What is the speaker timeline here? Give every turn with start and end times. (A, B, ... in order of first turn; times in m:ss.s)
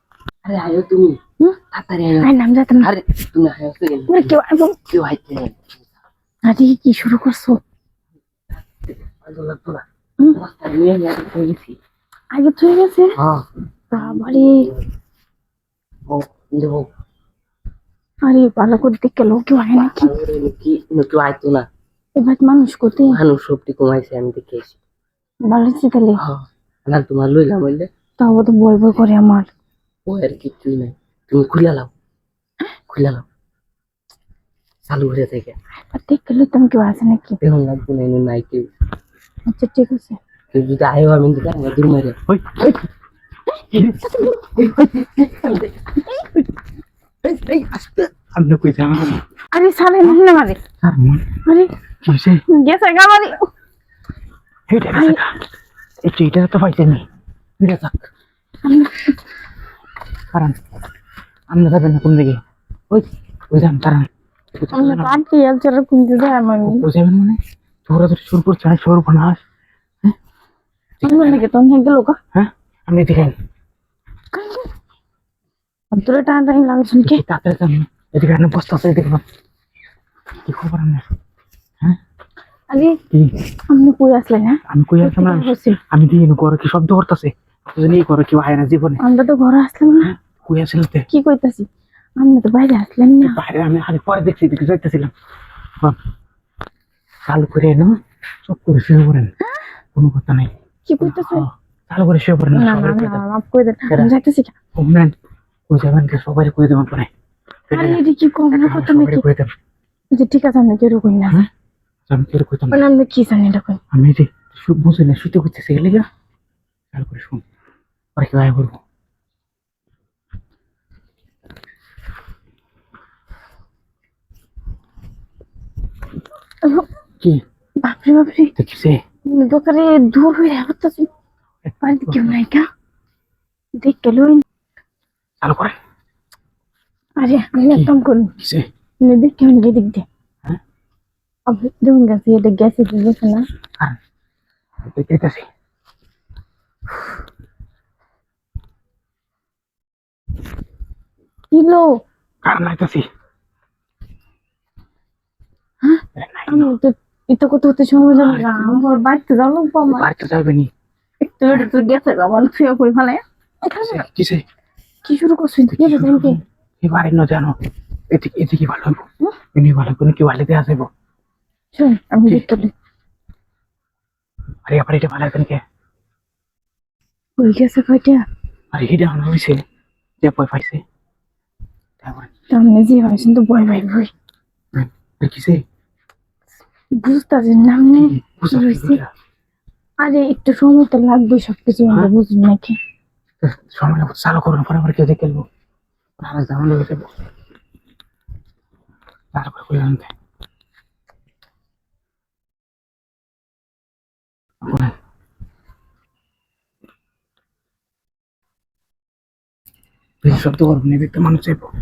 0:00.4-0:01.2 A
0:01.7-0:05.9 A
0:02.2-0:02.9 B
0:04.1-0:04.8 B
0:06.4-0:07.6 B
0:08.5-0:11.8 A
0:12.3-0:13.2 B
0:13.2-0:14.8 A
0:13.9-0:14.7 B
0:16.1-0:16.9 A
0:18.2-0:20.1 B
0:19.8-0:21.7 A
0:22.2-0:23.2 B
0:23.0-0:24.8 A
0:25.4-0:26.2 B
0:26.2-0:27.9 A
0:28.2-0:29.5 B
0:30.0-0:31.9 A
0:32.9-0:33.2 A
0:34.8-0:35.6 A
0:35.9-0:37.4 B
0:37.4-0:38.7 A
0:39.4-0:40.2 B
0:40.5-0:42.2 A
0:42.2-0:42.9 C
0:43.7-0:44.1 C
0:43.7-0:44.5 B
0:44.6-0:45.7 A
0:46.0-0:46.4 B
0:47.2-0:48.1 A
0:48.1-0:49.2 C
0:49.5-0:50.6 B
0:50.8-0:51.4 C
0:51.4-0:51.7 B
0:52.0-0:52.4 C
0:52.5-0:53.5 B
0:54.7-0:55.3 C
0:54.9-0:55.2 B
0:56.0-0:57.0 C
0:57.6-0:58.1 C
0:58.6-0:59.2 B
1:00.3-1:00.6 C
1:01.5-1:05.2 C
1:04.7-1:06.8 B
1:06.6-1:09.4 C
1:11.0-1:11.4 C
1:11.0-1:12.2 B
1:12.3-1:13.4 C
1:14.3-1:14.7 B
1:15.9-1:17.2 B
1:17.0-1:19.2 C
1:20.4-1:21.0 C
1:22.7-1:23.0 B
1:23.7-1:25.8 B
1:24.7-1:29.0 C
1:29.0-1:30.1 B
1:30.0-1:31.1 C
1:31.1-1:33.4 B
1:33.2-1:35.1 C
1:37.2-1:39.3 C
1:39.9-1:43.2 C
1:40.8-1:41.5 B
1:42.5-1:44.5 B
1:44.7-1:45.1 C
1:45.7-1:47.1 C
1:47.7-1:49.5 C
1:47.7-1:49.2 B
1:50.1-1:51.4 B
1:52.1-1:52.8 C
1:52.7-1:53.8 B
1:53.9-1:56.1 C
1:56.9-1:57.4 C
1:58.2-1:58.8 C
2:06.6-2:06.9 B
2:07.8-2:08.6 B
2:08.6-2:09.0 C
2:09.3-2:11.1 B
2:11.6-2:12.3 C
2:11.8-2:12.6 B
2:13.8-2:14.4 B
2:15.4-2:15.8 C
2:17.2-2:18.3 B
2:17.7-2:18.7 C
2:19.0-2:20.0 B
2:21.5-2:23.5 B
2:24.8-2:25.4 C
2:31.5-2:31.9 B
2:32.4-2:33.0 C
2:35.8-2:40.1 B
2:36.1-2:36.7 C
2:38.1-2:38.7 C
2:39.9-2:40.7 C
2:41.2-2:44.0 B
2:43.8-2:44.4 C
2:45.0-2:46.4 B
2:45.7-2:47.6 C
2:48.1-2:49.0 C
2:49.5-2:50.9 C
2:51.7-2:52.7 B
2:54.6-2:55.6 C
2:57.4-2:58.2 B
2:58.7-2:59.6 C
3:00.2-3:00.8 C
3:02.0-3:02.3 C
3:02.5-3:04.1 B
3:04.7-3:05.6 C
3:06.9-3:09.0 B
3:08.0-3:09.0 C
3:10.0-3:12.8 B
3:13.4-3:15.5 C
3:16.2-3:17.2 C
3:19.3-3:20.1 C
3:24.6-3:24.9 C
3:30.2-3:31.7 C